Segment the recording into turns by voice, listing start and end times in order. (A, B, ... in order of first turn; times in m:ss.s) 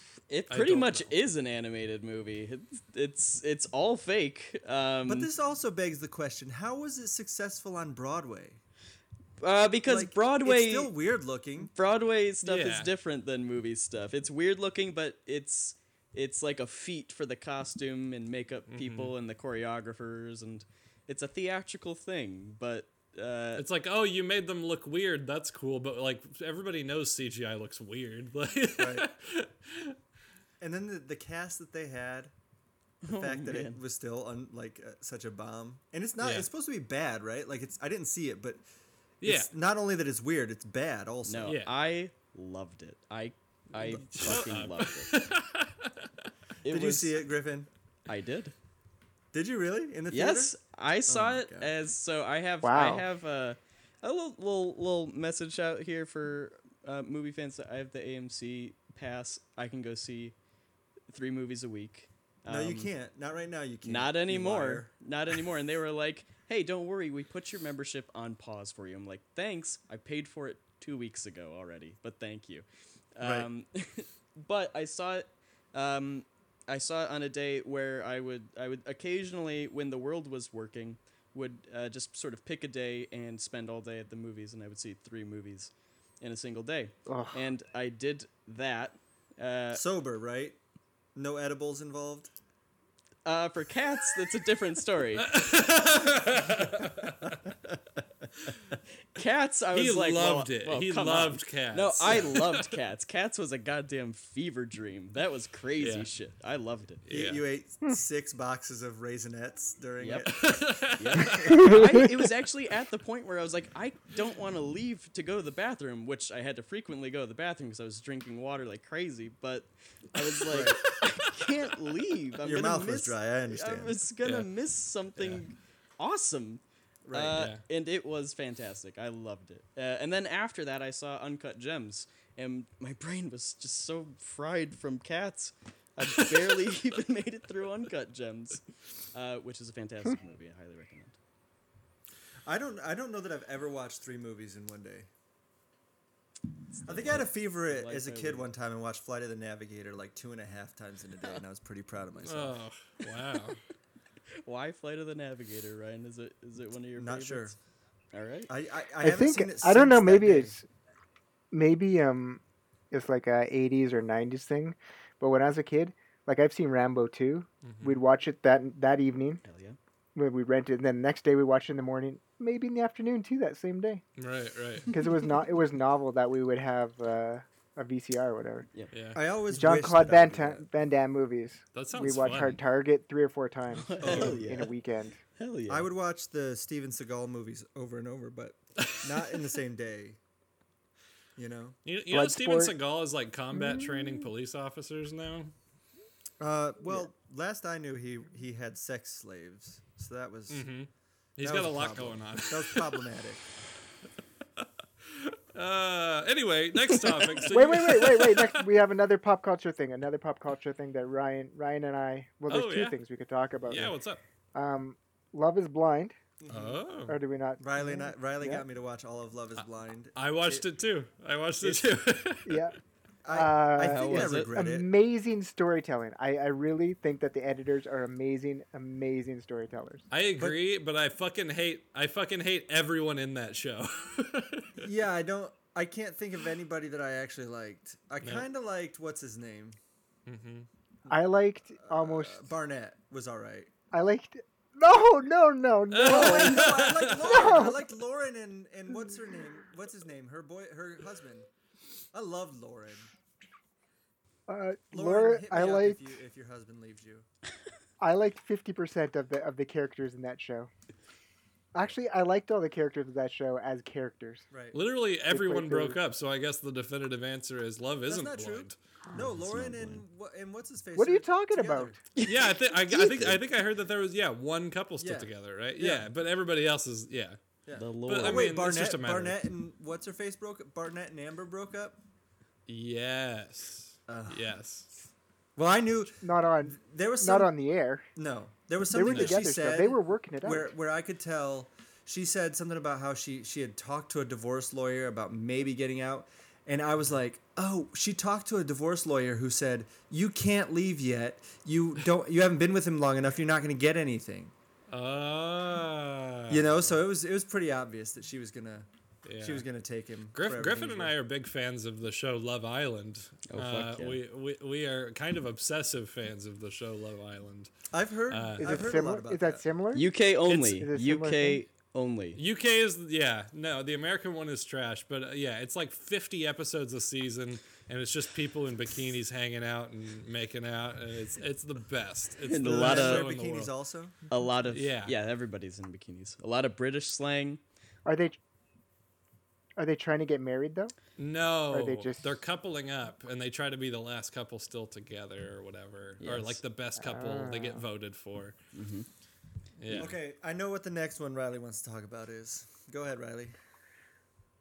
0:00.3-0:05.3 A
0:00.5-0:01.1 B
0:05.1-0:08.6 C
0:09.4-0:10.9 A
0:09.8-0:11.7 C
0:11.6-0:23.6 A
0:12.4-0:12.9 B
0:18.7-0:19.1 B
0:23.6-0:30.0 B
0:28.8-0:29.1 C
0:30.6-0:32.3 C
0:33.0-0:33.8 A
0:33.1-0:38.6 C
0:36.2-0:36.5 B
0:39.2-0:39.5 B
0:39.2-0:41.6 C
0:41.2-0:45.1 A
0:41.5-0:41.7 B
0:43.8-0:45.9 B
0:44.0-0:44.5 C
0:46.6-0:47.3 A
0:46.7-0:47.7 C
0:48.1-0:48.5 A
0:49.3-0:50.5 C
0:50.1-1:00.4 A
0:51.1-0:51.7 C
0:52.6-0:53.1 D
1:01.1-1:02.9 A
1:02.5-1:05.3 C
1:03.8-1:29.8 A
1:13.2-1:13.5 C
1:27.1-1:27.4 D
1:29.7-1:30.6 C
1:31.2-1:32.3 C
1:33.2-1:35.3 A
1:35.3-1:37.3 B
1:39.1-1:47.0 A
1:39.7-1:42.6 B
1:45.8-1:46.1 B
1:47.1-1:47.4 B
1:47.1-1:50.9 C
1:50.0-2:21.2 A
1:50.3-1:51.7 B
1:51.5-1:52.1 D
2:00.5-2:00.8 C
2:00.5-2:01.5 B
2:02.4-2:04.0 C
2:07.0-2:07.5 C
2:07.3-2:07.6 B
2:22.4-2:25.1 C
2:26.8-2:28.5 A
2:26.8-2:32.6 C
2:32.2-2:33.6 B
2:34.4-2:37.6 A
2:37.0-2:37.6 C
2:38.1-2:38.5 A
2:38.5-2:40.6 C
2:39.0-2:40.7 D
2:41.5-2:49.4 D
2:47.6-2:48.0 B
2:49.4-2:49.8 A
2:50.2-2:54.0 D
2:54.2-2:54.9 B
2:54.9-2:58.7 D
2:58.9-2:59.2 B
2:59.1-3:00.7 C
2:59.5-3:05.2 D
3:01.7-3:02.6 B
3:03.7-3:04.8 A
3:04.0-3:04.5 C
3:05.4-3:05.9 A
3:05.7-3:10.2 C
3:08.8-3:09.3 B
3:11.4-3:11.8 C
3:11.8-3:15.5 B
3:12.1-3:12.7 D
3:13.5-3:14.3 D
3:16.4-3:20.7 C
3:20.5-3:23.1 B
3:21.4-3:23.4 C
3:25.1-3:28.6 B
3:27.5-3:33.9 D
3:32.5-3:33.0 B
3:33.7-3:34.2 B
3:34.5-3:36.2 D
3:36.4-3:36.8 C
3:36.5-3:37.2 B
3:37.1-3:38.6 D
3:37.6-3:40.7 C
3:40.2-3:42.6 B
3:41.6-3:41.9 C
3:42.5-3:42.8 D
3:43.2-3:44.9 C
3:43.3-3:50.0 D
3:43.8-3:44.6 A
3:50.1-3:54.8 B
3:54.8-3:59.8 C
4:00.3-4:00.7 B
4:01.1-4:02.4 D
4:01.8-4:03.7 C
4:03.9-4:07.8 D
4:05.9-4:07.5 B
4:06.0-4:11.5 C
4:12.1-4:13.1 C
4:14.5-4:16.1 D
4:14.9-4:17.3 C
4:18.0-4:20.7 D
4:21.7-4:24.5 D
4:24.5-4:24.8 C
4:24.7-4:28.8 B
4:25.3-4:26.0 D
4:28.1-4:32.0 C
4:29.1-4:30.0 A
4:31.0-4:32.0 D
4:32.2-4:33.4 A
4:32.2-4:37.4 B
4:35.0-4:36.1 C
4:37.7-4:42.0 C
4:37.8-4:38.5 A
4:38.1-4:39.5 B
4:42.7-4:44.9 B
4:44.1-4:44.6 C
4:45.6-4:47.5 C
4:46.2-4:48.1 D
4:48.2-5:04.5 C
4:48.9-4:50.7 D
4:49.0-4:49.4 B
5:04.9-5:07.0 B
5:06.5-5:08.9 C
5:09.2-5:09.7 B
5:09.4-5:11.1 C
5:10.3-5:17.7 B
5:13.5-5:14.2 A
5:17.9-5:19.6 C
5:18.3-5:18.7 B
5:18.6-5:21.6 D
5:19.9-5:22.4 A
5:22.4-5:33.7 B
5:32.4-5:33.2 A
5:32.6-5:34.2 C
5:34.3-5:37.6 A
5:34.7-5:35.1 B
5:38.0-5:38.4 D
5:39.8-5:41.0 D
5:41.2-5:48.6 B
5:41.7-5:42.3 D
5:46.2-5:46.6 A
5:47.0-5:47.8 D
5:48.7-5:49.1 A
5:49.8-5:50.2 B
5:49.9-5:53.6 C